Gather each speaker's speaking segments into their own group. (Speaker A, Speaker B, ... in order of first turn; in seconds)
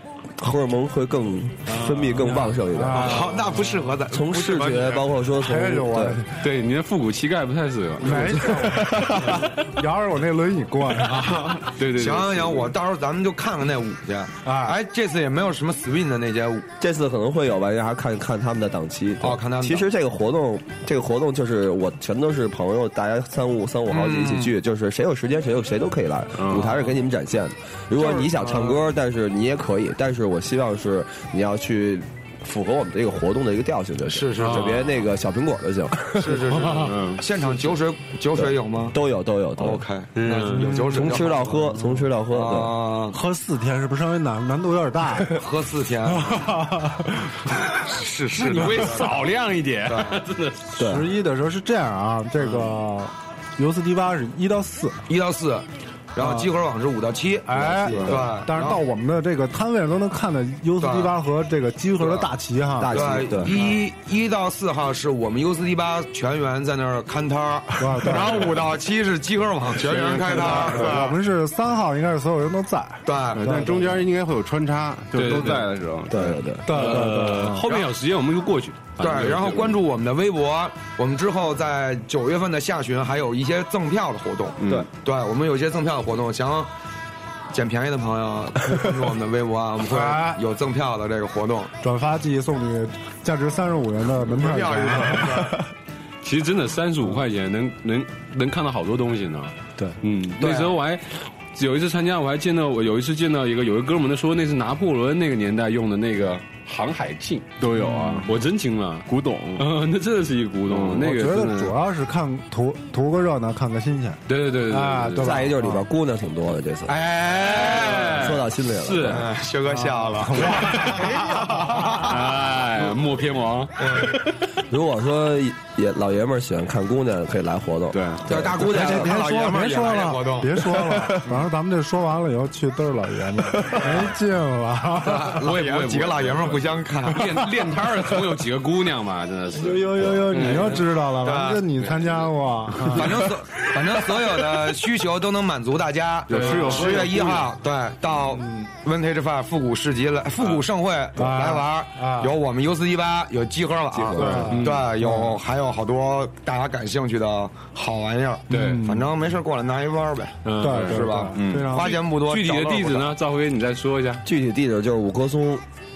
Speaker A: 0.3-3.4, 4.1-6.2, 8.0-9.5, 16.8-36.4, 38.3-39.8, 40.9-42.8, 50.8-51.1, 62.8-63.6, 76.1-77.0, 115.2-116.9, 118.0-119.3, 124.7-129.2, 153.9-154.5, 164.2-165.6
Speaker B: 1.7-2.3, 6.4-8.3, 11.6-12.7, 34.4-35.1, 36.5-36.9, 40.1-40.9, 48.4-50.8, 75.1-75.7, 76.7-79.8, 96.2-111.7, 114.3-115.4, 116.9-119.3, 120.5-120.9, 121.9-123.8, 135.2-140.8, 154.5-154.9, 158.5-158.8, 160.4-161.1, 161.9-164.2
Speaker C: 2.2-3.4, 5.4-6.4, 8.0-11.6, 14.4-14.8, 40.5-41.0, 43.1-45.4, 46.1-47.3, 50.8-55.0, 56.2-56.5, 57.5-63.3, 67.8-68.5, 70.3-74.0, 76.7-77.7, 89.9-90.4, 91.8-95.5, 111.0-115.8, 119.8-122.0, 128.6-135.4, 139.6-143.2, 151.2-152.3, 154.1-155.4, 158.5-159.1, 160.6-162.0
Speaker D: 2.9-5.1, 11.8-16.6, 19.2-19.9, 23.9-24.5, 27.9-28.8, 34.1-34.7, 36.1-39.0, 39.6-41.7, 42.3-43.2, 45.3-46.5, 47.8-49.1, 49.9-50.2, 55.1-58.8, 60.8-61.1, 62.0-62.3, 62.9-71.2, 73.0-73.5, 77.6-77.9, 79.0-86.7, 87.5-91.7, 94.2-95.6, 100.4-100.8, 117.4-118.3, 119.1-122.1, 123.8-124.2, 128.3-131.3, 133.7-134.1, 135.0-137.5, 140.3-141.7, 142.9-163.1
Speaker E: 26.4-26.7, 36.8-37.2, 57.9-58.3, 69.7-71.0, 73.3-76.5, 84.6-84.9, 107.6-108.3, 109.1-109.7, 110.7-111.2, 127.9-128.3, 146.3-147.5, 154.5-154.8, 160.7-161.8